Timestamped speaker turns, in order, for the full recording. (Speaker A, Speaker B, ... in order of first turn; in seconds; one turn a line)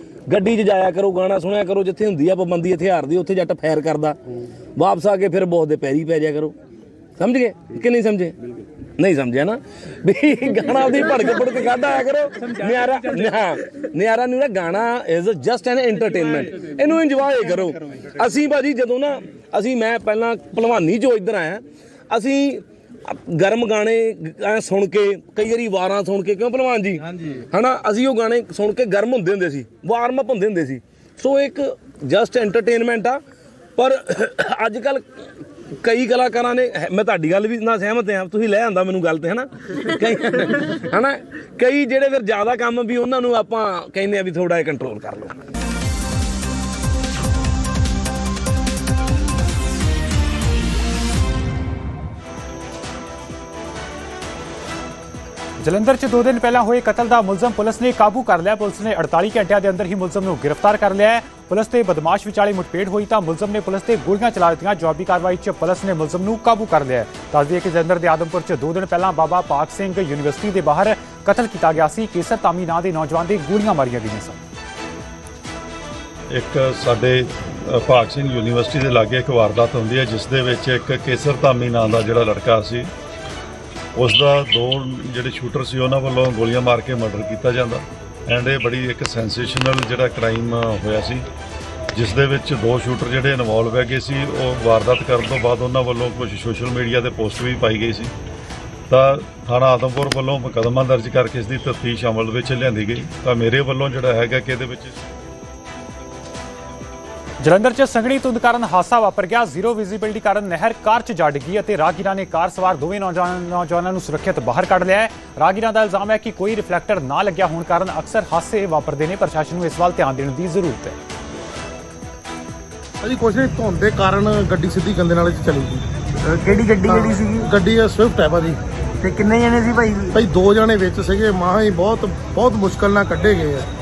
Speaker A: 0.3-4.2
Speaker A: 4.8-6.5
Speaker A: 7.2-8.3
Speaker A: 9.0-33.2
Speaker A: 33.8-35.0
Speaker A: 35.8-45.4
Speaker B: 55.6-74.4
Speaker C: 76.3-82.8
Speaker C: 84.0-91.2
Speaker C: 91.9-98.1
Speaker C: 98.9-105.0
Speaker B: 107.4-121.0
Speaker D: 123.0-125.8
Speaker E: 126.3-127.5
Speaker D: 126.8-128.6
Speaker E: 129.0-130.2
Speaker D: 130.1-133.7